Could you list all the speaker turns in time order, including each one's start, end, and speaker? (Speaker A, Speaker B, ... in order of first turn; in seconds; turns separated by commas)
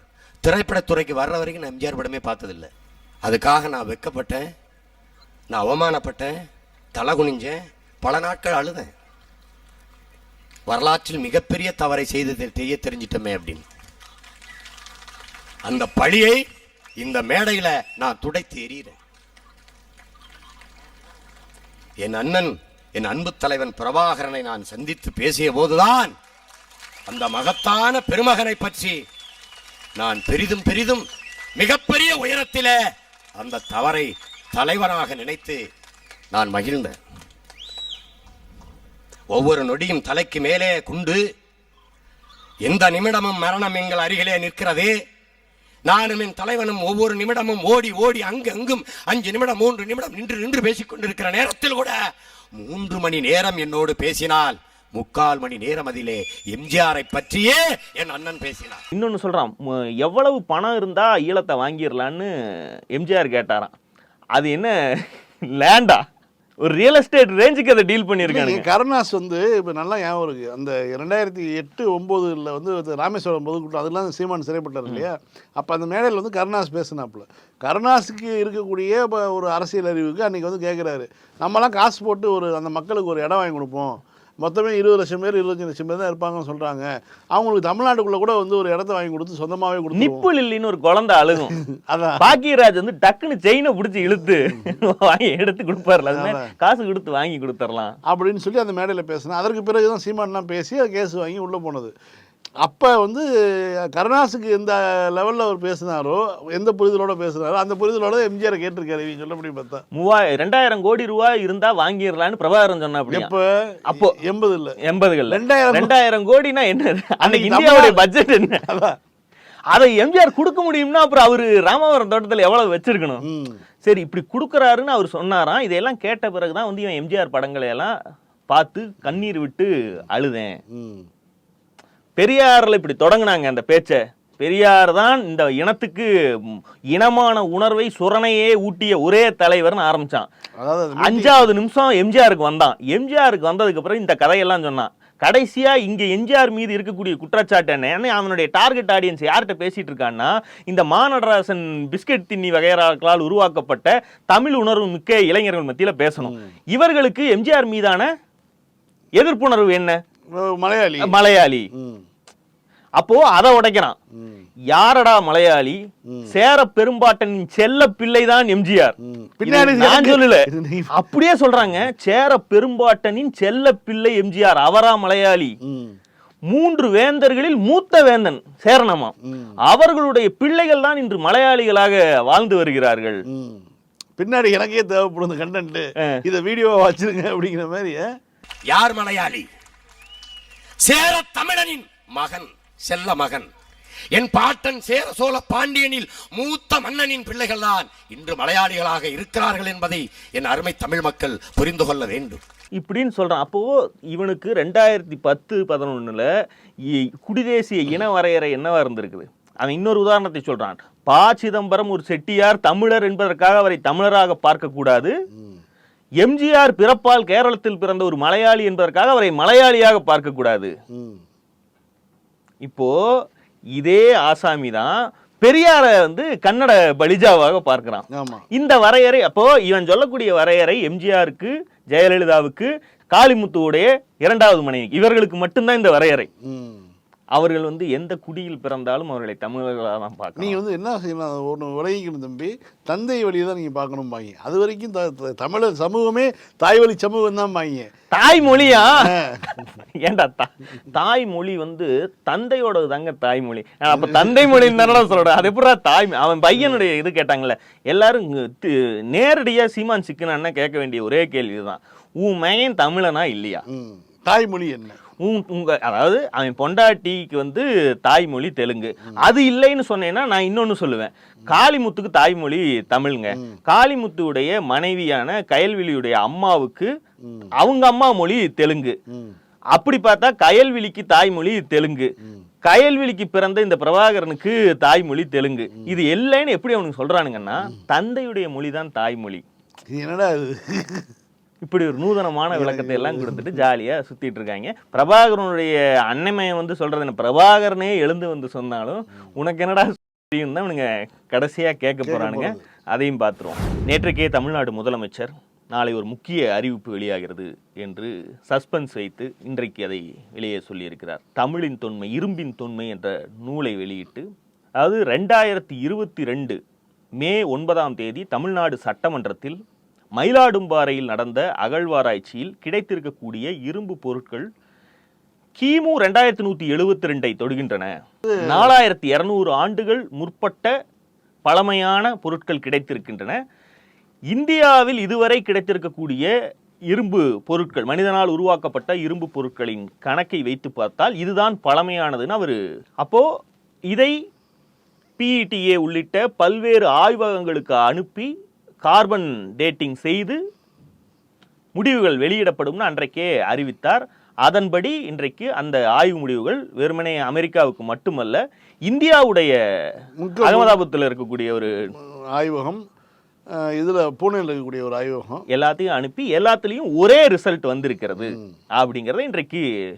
Speaker A: 0.4-2.7, Speaker A: 3.2-4.5, Speaker A: 5.5-6.4, Speaker A: 6.9-8.9, Speaker A: 10.7-13.6, Speaker A: 15.7-16.4, Speaker A: 17.0-19.0, Speaker A: 22.0-26.1, Speaker A: 27.1-29.0, Speaker A: 30.0-31.1, Speaker A: 31.6-32.8, Speaker A: 33.4-35.6, Speaker A: 36.3-37.0, Speaker A: 39.3-41.2, Speaker A: 42.6-45.0, Speaker A: 45.9-52.0, Speaker A: 52.6-58.8, Speaker B: 58.9-62.3, Speaker B: 62.9-63.7, Speaker B: 64.3-66.0, Speaker B: 66.6-68.7, Speaker C: 68.2-90.3, Speaker B: 90.0-91.6, Speaker C: 91.4-92.4, Speaker B: 92.2-98.0, Speaker C: 96.1-96.5, Speaker C: 98.1-101.9, Speaker C: 102.6-109.8, Speaker B: 109.9-113.3, Speaker C: 113.1-114.8, Speaker B: 113.9-114.2, Speaker B: 114.8-118.6, Speaker C: 115.3-115.9, Speaker C: 117.2-119.0, Speaker B: 119.7-123.2, Speaker C: 123.2-123.6, Speaker B: 123.8-127.9, Speaker B: 128.5-130.6, Speaker C: 130.7-131.1, Speaker B: 132.2-140.3, Speaker C: 140.6-141.5, Speaker B: 141.0-158.1, Speaker C: 156.2-156.5, Speaker B: 159.2-160.0, Speaker C: 160.3-161.2, Speaker B: 161.0-161.7, Speaker C: 161.7-162.0, Speaker B: 163.0-164.0, Speaker C: 164.1-164.4, Speaker B: 164.7-175.6, Speaker C: 166.1-166.3, Speaker C: 169.0-170.9, Speaker C: 175.6-176.0, Speaker B: 176.5-179.1, Speaker C: 179.2-179.6, Speaker B: 179.7-183.2, Speaker C: 183.3-183.7, Speaker C: 184.2-188.1, Speaker A: 188.7-189.5, Speaker A: 190.8-193.5, Speaker A: 194.1-202.4, Speaker B: 202.8-206.3, Speaker B: 206.9-215.1, Speaker C: 215.3-215.6, Speaker B: 216.2-220.7, Speaker C: 220.9-221.2, Speaker B: 222.6-222.9, Speaker B: 223.8-236.3, Speaker C: 228.1-228.4, Speaker C: 236.4-236.9, Speaker B: 237.3-240.6, Speaker C: 240.4-247.9, Speaker B: 248.1-263.6, Speaker C: 249.0-249.6, Speaker C: 253.9-255.0, Speaker C: 263.7-265.0, Speaker B: 265.2-276.9, Speaker C: 273.3-273.6, Speaker C: 277.2-277.5, Speaker B: 277.6-278.9, Speaker C: 279.1-279.4, Speaker B: 279.7-282.1, Speaker B: 282.6-289.4, Speaker C: 289.9-291.1, Speaker B: 291.6-314.3, Speaker C: 292.5-293.6, Speaker C: 302.0-302.6, Speaker B: 314.8-316.6, Speaker B: 317.2-319.6, Speaker B: 320.2-324.5, Speaker B: 325.6-330.7, Speaker C: 328.2-328.7, Speaker B: 331.4-333.4, Speaker B: 334.3-336.3, Speaker B: 336.9-343.3, Speaker B: 345.2-348.3, Speaker B: 348.9-350.4, Speaker B: 351.8-359.6, Speaker C: 360.2-360.8, Speaker B: 360.4-361.9, Speaker C: 362.0-362.8, Speaker C: 363.5-365.4, Speaker B: 365.5-369.6, Speaker C: 368.2-368.5